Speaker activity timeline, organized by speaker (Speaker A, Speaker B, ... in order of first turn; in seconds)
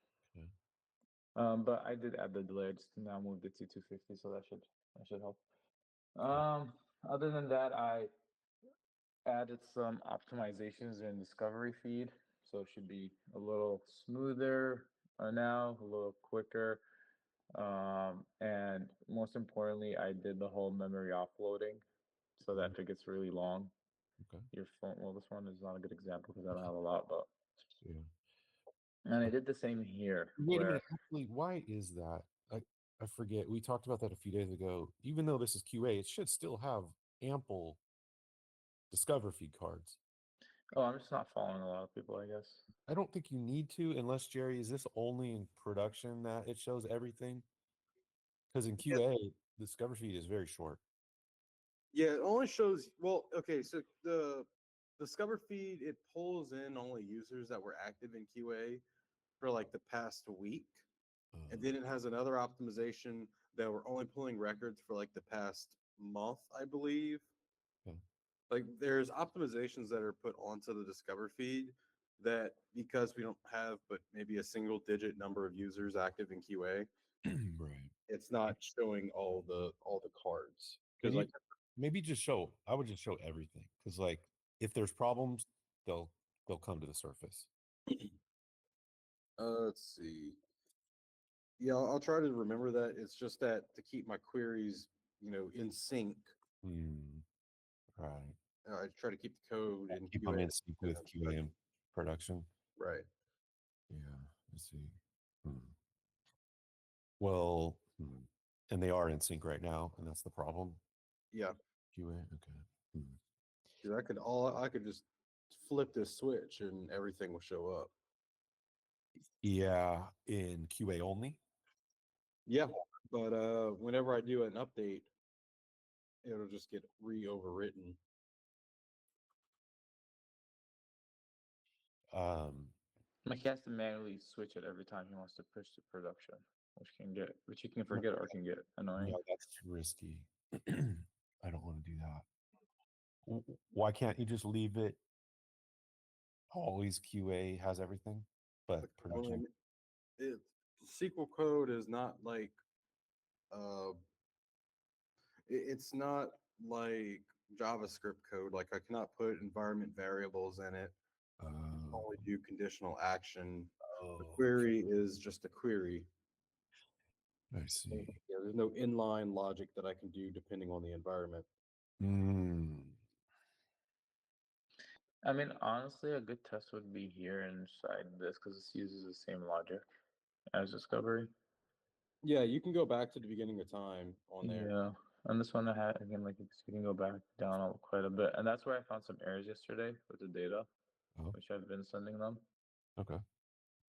Speaker A: 1.4-5.4, 6.2-8.1, 9.2-16.8, 17.5-21.8, 22.4-23.7, 24.5-27.3, 29.1-30.8, 40.7-42.6, 133.2-139.2, 175.2-179.9, 180.5-181.3, 184.4-190.7, 191.3-192.4
Speaker B: 24.2-24.5, 30.4-37.8, 38.9-40.0, 42.9-47.5, 48.5-50.8, 61.3-61.7, 77.2-77.9, 81.0-87.5, 96.6-97.2, 98.0-98.4, 99.9-102.5, 103.9-105.7, 107.2-110.8, 111.9-113.2, 119.4-121.4, 132.1-132.8, 139.0-142.2, 143.2-145.0, 146.5-149.4, 161.4-162.3, 163.9-164.5, 167.5-168.2, 172.0-173.0
Speaker C: 51.9-54.5, 55.0-58.8, 59.4-60.8, 61.5-67.2, 68.5-76.9, 78.1-81.3, 89.4-90.4, 91.6-96.3, 98.6-101.3, 102.8-103.0, 113.8-117.9, 122.5-125.1, 126.2-128.0, 148.8-149.5, 150.2-152.6, 153.5-153.9, 155.5-160.9, 161.9-166.1, 167.9-171.5, 182.2-184.7